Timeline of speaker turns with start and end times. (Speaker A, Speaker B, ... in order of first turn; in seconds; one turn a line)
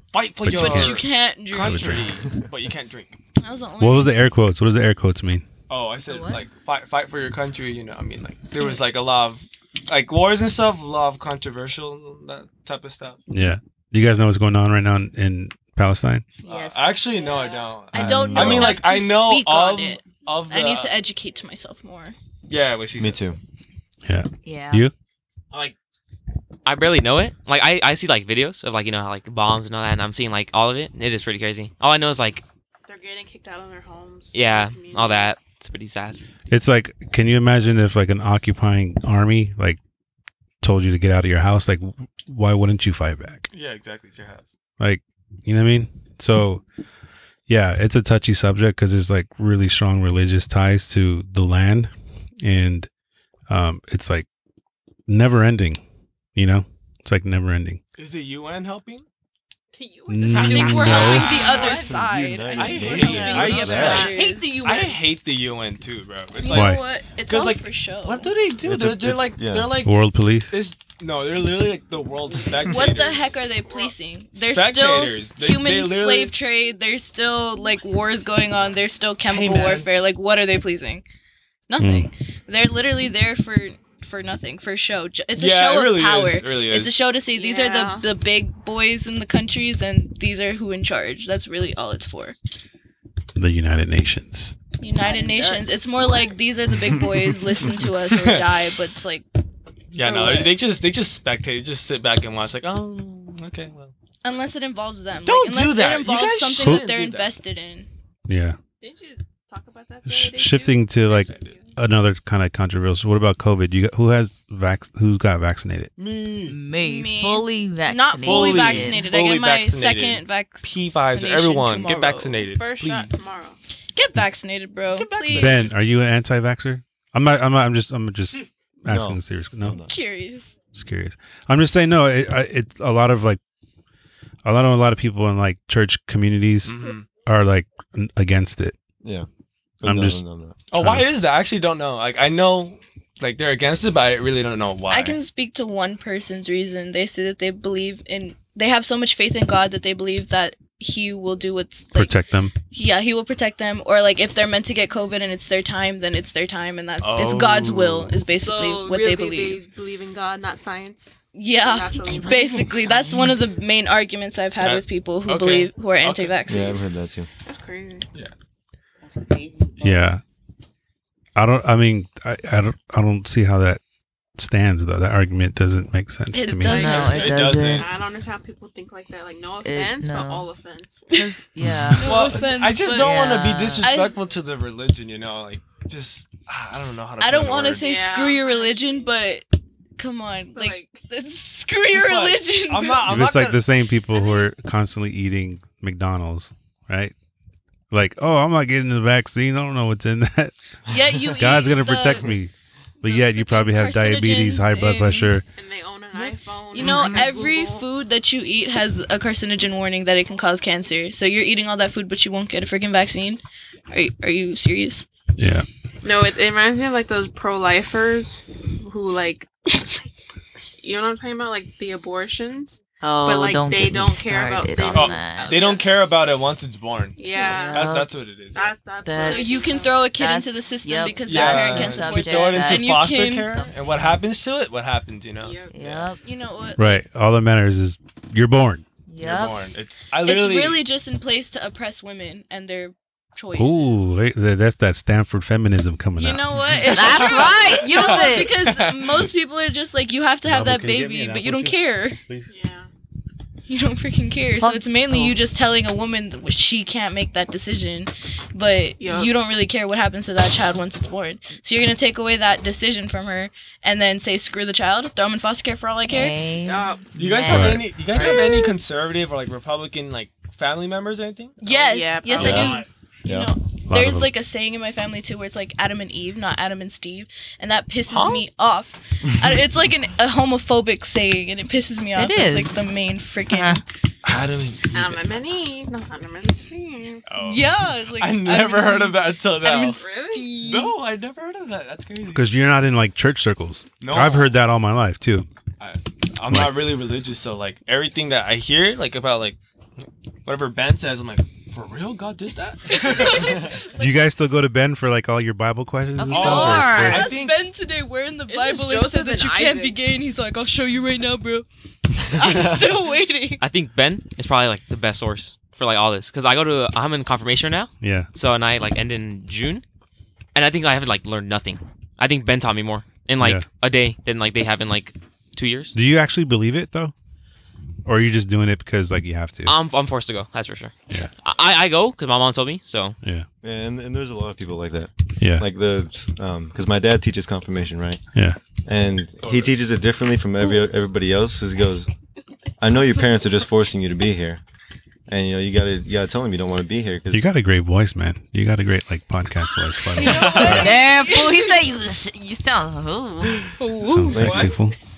Speaker A: 0.1-3.1
Speaker B: 0.4-2.2
Speaker C: 0.5-2.1
Speaker C: 3.4-4.2
Speaker B: 3.8-5.4
Speaker A: 5.7-13.2
Speaker D: 6.0-6.4
Speaker C: 8.6-8.8
Speaker B: 13.3-16.2
Speaker D: 16.4-16.8
Speaker A: 16.4-20.9
Speaker E: 17.0-17.9
Speaker C: 17.9-22.1
Speaker B: 18.0-18.7
Speaker F: 18.0-18.8
Speaker A: 22.5-23.2
Speaker F: 23.0-23.4
Speaker B: 24.0-24.9
Speaker D: 24.4-24.9
Speaker G: 26.6-32.4
Speaker E: 32.9-35.4
Speaker G: 34.3-36.2
Speaker B: 36.5-39.8
Speaker B: 40.6-43.5
Speaker A: 43.5-44.5
Speaker B: 44.8-46.6
Speaker B: 47.5-52.9
Speaker B: 53.5-54.3
Speaker B: 55.1-55.8
Speaker B: 56.4-57.8
Speaker A: 58.0-59.0
Speaker E: 59.7-61.9
Speaker B: 60.1-61.4
Speaker A: 60.2-61.9
Speaker C: 60.4-64.6
Speaker F: 61.5-64.2
Speaker A: 62.5-69.9
Speaker E: 63.2-65.0
Speaker C: 66.3-68.3
Speaker B: 66.5-66.8
Speaker F: 68.6-69.8
Speaker B: 69.8-70.5
Speaker A: 70.5-73.3
Speaker C: 72.6-81.0
Speaker A: 74.3-76.3
Speaker A: 79.3-79.9
Speaker C: 81.7-92.3
Speaker B: 81.8-82.1
Speaker A: 85.3-87.0
Speaker E: 87.3-88.1
Speaker B: 93.3-94.5
Speaker C: 94.8-99.2
Speaker D: 94.9-96.1
Speaker A: 98.0-98.6
Speaker A: 99.9-103.9
Speaker C: 99.9-100.6
Speaker C: 104.2-107.9
Speaker A: 105.2-107.3
Speaker B: 108.3-108.6
Speaker E: 108.8-111.8
Speaker B: 110.1-115.9
Speaker A: 116.0-116.6
Speaker D: 116.5-119.0
Speaker C: 116.8-122.4
Speaker A: 118.2-123.2
Speaker E: 122.5-123.6
Speaker C: 123.9-125.7
Speaker A: 124.9-125.7
Speaker B: 125.3-129.8
Speaker F: 128.8-129.9
Speaker C: 129.8-130.6
Speaker B: 130.7-133.4
Speaker B: 134.4-138.7
Speaker A: 136.6-137.1
Speaker F: 139.8-140.6
Speaker B: 139.8-140.2
Speaker A: 140.7-145.2
Speaker B: 140.7-141.1
Speaker C: 144.9-152.2
Speaker B: 151.9-152.5
Speaker C: 152.7-159.6
Speaker A: 157.0-158.1
Speaker E: 158.3-162.9
Speaker C: 161.3-166.9
Speaker D: 162.6-163.1
Speaker A: 164.6-166.4
Speaker F: 166.5-167.3
Speaker E: 167.4-168.1
Speaker D: 169.0-169.9
Speaker B: 169.8-170.2
Speaker B: 171.3-173.8
Speaker B: 174.4-176.9
Speaker C: 176.3-177.5
Speaker D: 176.6-177.9
Speaker A: 176.7-177.9
Speaker E: 177.6-181.0
Speaker D: 179.6-180.5
Speaker D: 181.1-182.2
Speaker B: 181.6-182.0
Speaker C: 182.0-184.2
Speaker A: 182.0-188.1
Speaker D: 182.9-183.8
Speaker C: 187.2-189.4
Speaker E: 187.7-189.1
Speaker C: 190.0-193.2
Speaker E: 190.5-191.1
Speaker A: 191.9-193.6
Speaker B: 193.1-197.1
Speaker E: 194.1-194.5
Speaker B: 197.9-200.5
Speaker C: 200.9-202.3
Speaker B: 201.2-202.5
Speaker C: 203.0-205.3
Speaker B: 203.0-205.4
Speaker E: 205.5-207.9
Speaker C: 206.1-215.1
Speaker A: 206.8-207.3
Speaker B: 215.4-215.7
Speaker E: 216.0-220.1
Speaker E: 220.8-225.9
Speaker D: 223.0-225.5
Speaker A: 224.9-228.8
Speaker E: 227.2-228.0
Speaker D: 227.4-228.1
Speaker E: 228.5-230.1
Speaker D: 229.0-233.0
Speaker C: 229.2-233.6
Speaker A: 231.2-236.0
Speaker E: 235.4-235.7
Speaker D: 235.7-236.2
Speaker C: 236.2-237.0
Speaker B: 236.8-238.8
Speaker D: 239.1-239.5
Speaker A: 239.2-240.8
Speaker C: 240.2-244.1
Speaker B: 243.5-246.8
Speaker C: 246.2-252.2
Speaker D: 246.8-248.6
Speaker A: 247.1-249.3
Speaker B: 250.4-252.5
Speaker E: 252.4-252.9
Speaker C: 253.7-266.4
Speaker D: 254.6-255.3
Speaker E: 259.0-259.4
Speaker D: 266.1-267.8
Speaker E: 266.6-267.5
Speaker A: 267.1-271.6
Speaker B: 267.5-267.9
Speaker E: 268.1-268.5
Speaker C: 268.1-268.7
Speaker C: 271.6-283.8
Speaker E: 271.6-272.7
Speaker F: 272.3-273.5
Speaker A: 272.4-272.9
Speaker B: 273.9-274.3
Speaker A: 278.1-278.4
Speaker D: 282.1-282.9
Speaker D: 283.5-283.8
Speaker A: 284.2-285.2
Speaker E: 284.9-287.2
Speaker A: 287.3-290.0
Speaker C: 287.4-291.0
Speaker E: 289.8-290.6
Speaker A: 290.6-292.5
Speaker B: 292.3-295.5
Speaker A: 294.0-294.5
Speaker A: 295.8-299.6
Speaker B: 296.4-296.9
Speaker A: 300.4-303.7
Speaker C: 302.9-304.1
Speaker B: 304.0-307.2
Speaker D: 306.1-307.3
Speaker A: 306.3-307.6
Speaker C: 306.4-311.6
Speaker E: 308.4-310.0
Speaker C: 312.2-313.6
Speaker F: 312.4-312.9
Speaker G: 313.6-319.8
Speaker B: 318.0-318.3
Speaker G: 320.5-325.9
Speaker B: 323.4-323.6
Speaker B: 325.9-327.1
Speaker B: 328.0-329.8
Speaker G: 329.6-333.2
Speaker F: 333.6-338.2
Speaker B: 335.4-335.6
Speaker B: 338.3-338.6
Speaker F: 338.8-342.1
Speaker A: 339.4-339.8
Speaker F: 342.8-344.6
Speaker F: 345.3-347.5
Speaker B: 347.3-350.9
Speaker C: 350.1-351.6
Speaker A: 350.2-350.8
Speaker D: 350.6-353.7
Speaker C: 353.8-354.7
Speaker B: 354.0-355.0
Speaker F: 354.3-354.8